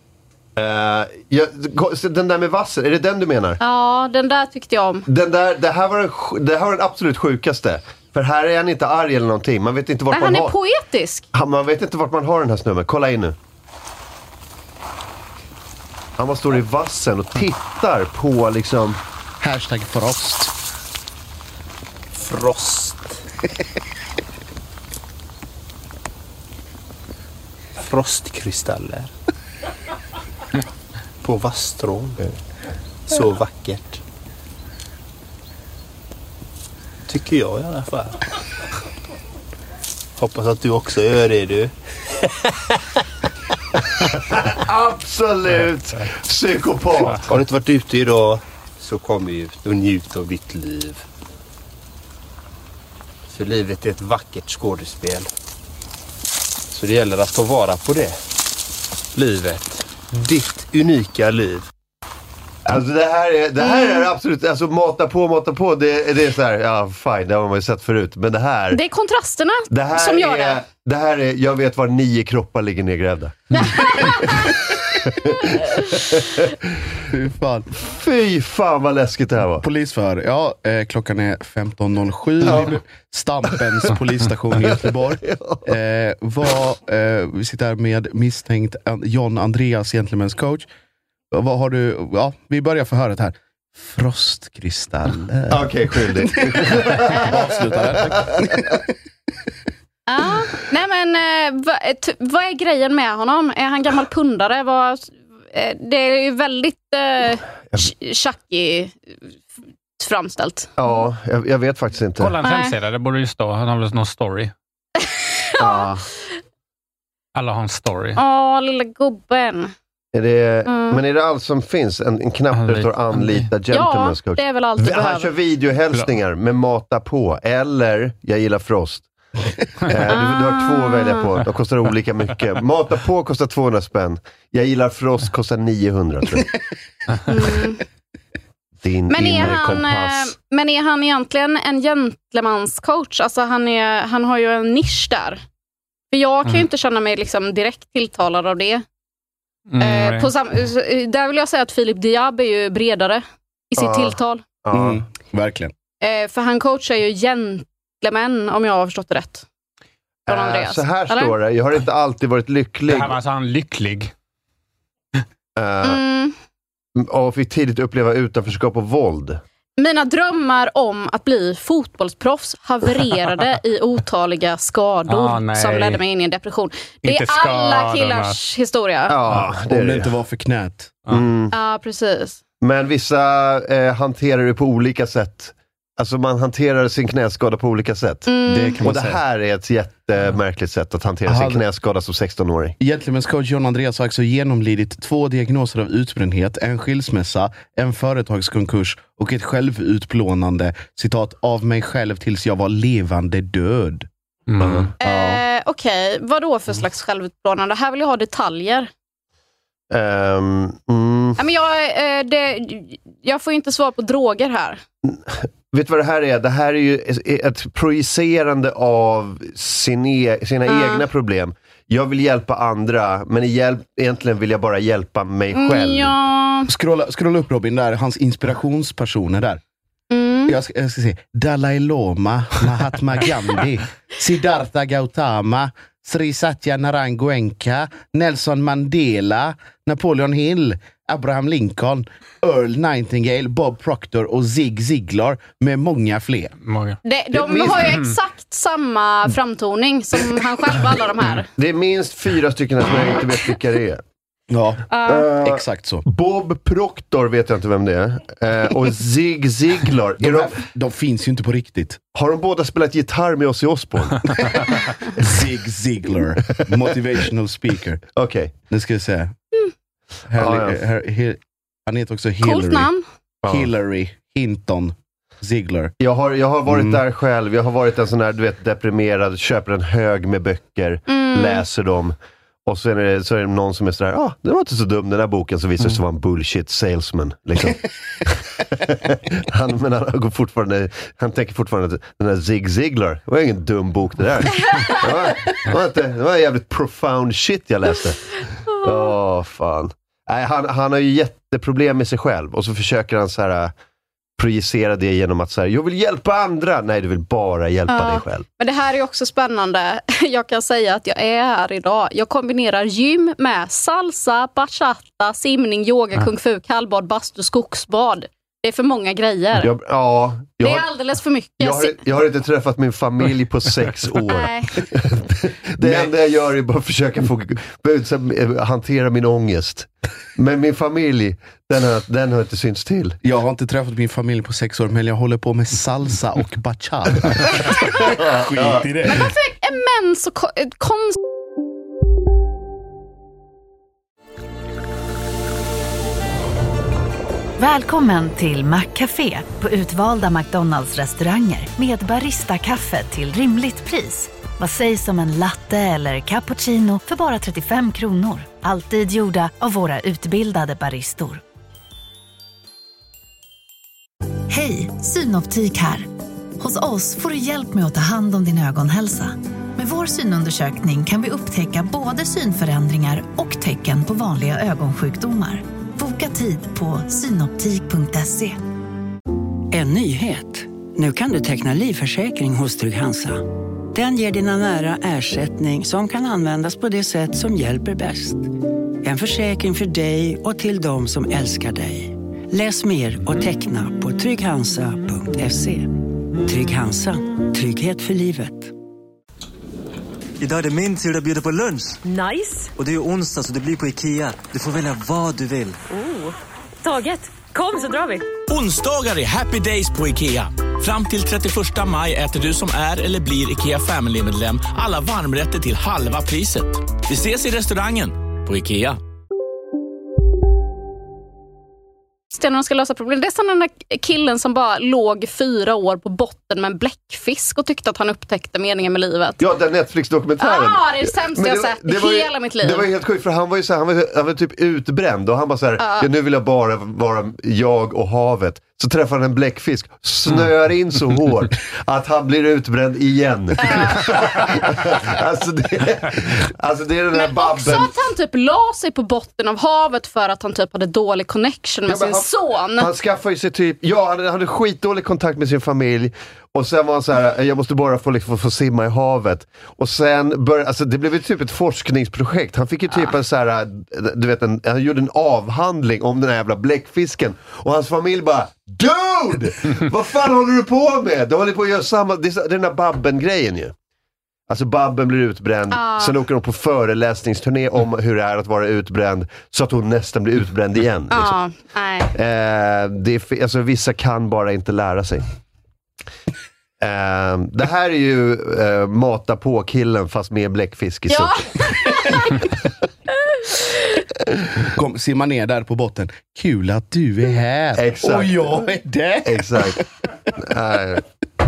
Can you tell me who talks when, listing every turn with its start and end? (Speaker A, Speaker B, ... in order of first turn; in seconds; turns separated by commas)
Speaker A: 0.6-3.6, Speaker B: 3.6-5.1, Speaker A: 5.1-10.5, Speaker B: 10.1-11.3, Speaker A: 11.3-13.3, Speaker A: 16.2-19.0, Speaker C: 19.4-20.5, Speaker D: 22.2-23.2, Speaker D: 27.8-29.1, Speaker D: 31.2-32.4, Speaker D: 33.1-34.0, Speaker D: 37.1-38.2, Speaker D: 40.2-41.7, Speaker A: 44.6-47.3, Speaker D: 47.2-51.0, Speaker D: 53.3-55.3, Speaker D: 56.7-58.2, Speaker D: 59.1-61.6, Speaker A: 62.6-68.8, Speaker B: 63.6-64.0, Speaker B: 68.7-70.6, Speaker A: 69.7-76.5, Speaker B: 73.5-74.4, Speaker C: 77.1-77.7, Speaker A: 77.8-79.6, Speaker C: 79.6-90.7, Speaker A: 82.5-82.7, Speaker A: 84.7-85.6, Speaker C: 91.3-98.8, Speaker A: 95.5-98.5, Speaker B: 100.1-109.0, Speaker B: 110.0-110.7, Speaker A: 110.8-112.3, Speaker E: 112.2-114.5, Speaker B: 112.4-112.7, Speaker B: 115.5-115.9, Speaker A: 115.6-116.0, Speaker E: 117.3-118.2, Speaker B: 118.2-119.7, Speaker A: 120.1-129.1, Speaker B: 120.7-121.0, Speaker E: 122.5-123.5, Speaker B: 123.7-125.3, Speaker A: 129.8-136.5, Speaker B: 130.1-131.3, Speaker B: 137.2-137.8, Speaker A: 138.8-140.3, Speaker B: 139.1-145.4, Speaker B: 146.1-148.8, Speaker E: 149.7-150.3, Speaker B: 149.8-154.4, Speaker A: 153.8-155.0, Speaker C: 154.7-155.7, Speaker B: 156.0-159.4, Speaker A: 160.3-163.2, Speaker B: 160.3-161.3, Speaker E: 162.9-164.1, Speaker A: 165.6-166.0, Speaker B: 165.8-166.3, Speaker A: 166.9-169.4, Speaker B: 169.8-179.2, Speaker E: 175.1-176.0, Speaker E: 177.0-178.3, Speaker A: 179.1-180.1, Speaker C: 179.3-181.0, Speaker A: 181.1-181.5, Speaker B: 181.5-182.4, Speaker A: 182.6-188.3, Speaker B: 188.2-188.8, Speaker C: 188.5-189.2, Speaker A: 188.8-192.8, Speaker C: 191.2-191.6, Speaker C: 192.8-204.1, Speaker E: 204.5-204.9, Speaker A: 204.6-204.9, Speaker B: 205.0-208.9, Speaker C: 205.0-205.4, Speaker A: 209.9-211.4, Speaker B: 211.4-214.8, Speaker A: 215.0-226.1, Speaker B: 220.7-221.0, Speaker B: 225.5-226.7, Speaker C: 226.7-229.6, Speaker B: 230.1-230.5, Speaker C: 230.5-246.5, Speaker E: 246.6-247.0, Speaker B: 247.0-251.5, Speaker A: 247.3-248.1, Speaker A: 251.6-254.0, Speaker C: 254.5-256.0, Speaker B: 254.9-255.3, Speaker A: 255.1-260.5, Speaker C: 260.2-262.0, Speaker A: 262.1-264.6, Speaker C: 265.2-268.0, Speaker A: 268.1-268.5, Speaker C: 268.7-269.3, Speaker C: 270.3-272.9, Speaker A: 270.4-270.8, Speaker B: 272.4-273.0, Speaker A: 273.4-273.7, Speaker C: 273.5-275.9, Speaker A: 276.0-282.1, Speaker C: 276.7-277.0, Speaker B: 281.1-281.6, Speaker A: 282.6-287.9, Speaker A: 288.5-303.7, Speaker B: 294.7-295.0, Speaker A: 304.4-308.4, Speaker B: 307.9-319.7, Speaker A: 319.6-320.9, Speaker B: 320.6-321.9, Speaker A: 321.6-333.2, Speaker B: 324.3-324.8, Speaker C: 325.8-326.1, Speaker C: 333.2-339.3, Speaker A: 338.1-338.8, Speaker B: 339.1-341.2, Speaker F: 347.6-361.4, Speaker F: 364.5-378.6, Speaker G: 379.7-388.5, Speaker G: 389.0-398.7, Speaker H: 400.4-402.0, Speaker I: 402.0-402.7, Speaker H: 402.8-405.8, Speaker I: 405.9-408.3, Speaker J: 408.5-419.0, Speaker B: 422.3-429.4, Speaker A: 429.4-447.9, Speaker B: 430.4-432.9, Speaker B: 435.8-436.1, Speaker B: 443.6-444.4, Speaker B: 447.1-452.9, Speaker A: 451.9-473.7, Speaker A: 474.5-481.4, Speaker B: 475.7-476.1, Speaker B: 481.1-482.1, Speaker A: 482.1-485.2, Speaker A: 486.8-491.4, Speaker B: 491.1-492.4, Speaker C: 494.7-499.8, Speaker A: 497.8-498.6, Speaker A: 499.2-501.0